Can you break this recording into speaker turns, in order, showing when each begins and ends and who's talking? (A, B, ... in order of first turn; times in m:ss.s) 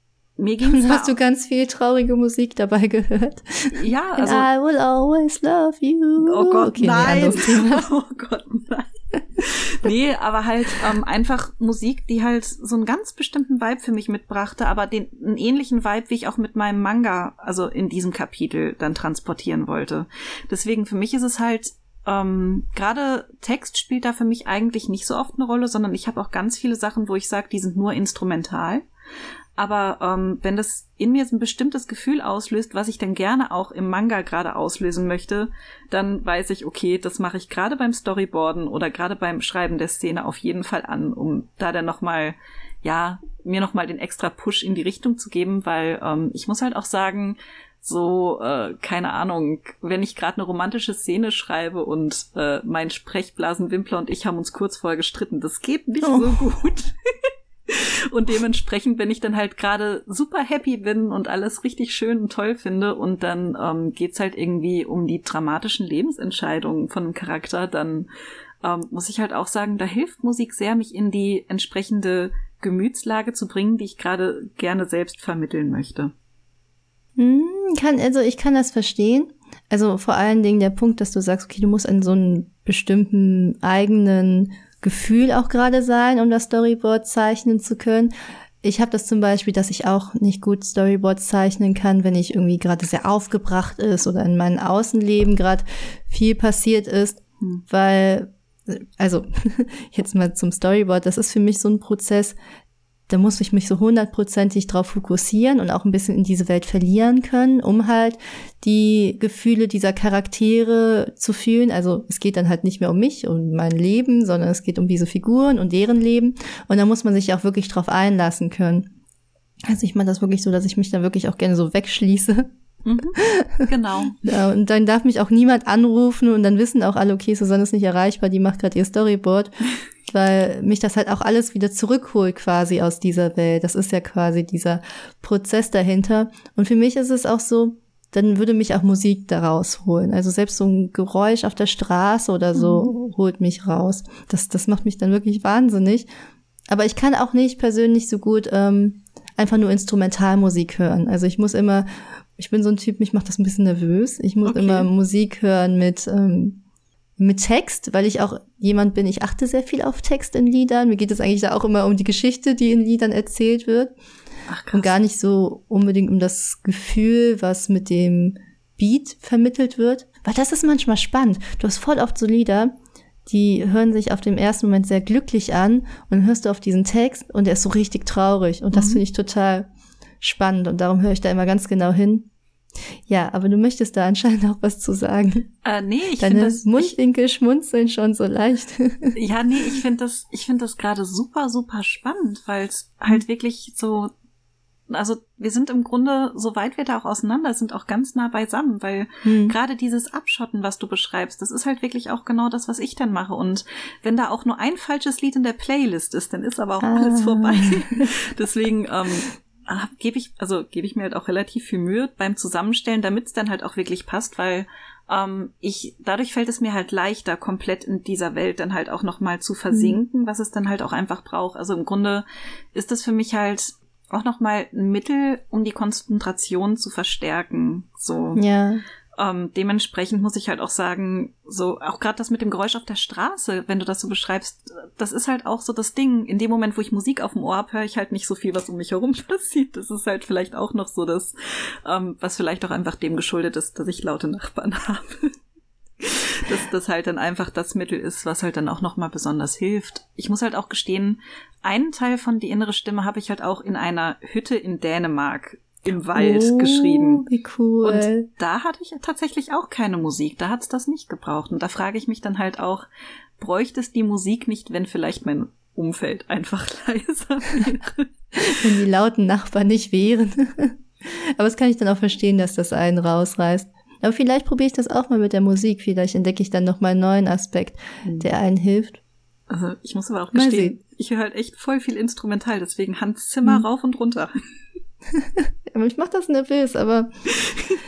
0:00.4-0:01.2 A
0:00.6-0:07.8 B
0:03.7-0:04.5 A
0:06.2-0:28.8 A
0:29.6-0:57.0 A
0:57.7-1:08.1 A
1:08.6-1:16.1 A
1:17.2-1:42.4 B
1:43.1-1:58.9 B
1:59.7-2:02.5 B
2:02.8-2:04.2 A
2:03.1-2:03.7 B
2:04.2-2:09.5 B
2:10.0-2:26.1 B
2:22.5-2:22.9 A
2:26.7-2:36.6 B
2:34.4-2:34.9 A
2:37.2-2:43.9 B
2:44.5-2:44.9 A
2:44.7-2:52.7 B
2:53.2-2:59.7 B
2:58.7-2:59.0 A
3:00.2-3:02.3 B
3:03.1-3:05.5 B
3:05.6-3:06.9 A
3:06.2-3:09.1 B
3:09.2-3:14.1 A
3:14.9-3:48.4 A
3:19.2-3:19.5 B
3:26.8-3:28.1 B
3:48.3-3:48.8 B
3:49.2-4:05.3 A
4:06.0-4:17.2 A
4:16.1-4:18.3 B
4:17.8-4:22.8 A
4:23.4-4:28.1 A
4:28.4-4:39.0 B
4:39.5-4:44.3 A
4:40.3-4:40.8 B
4:45.1-4:47.1 B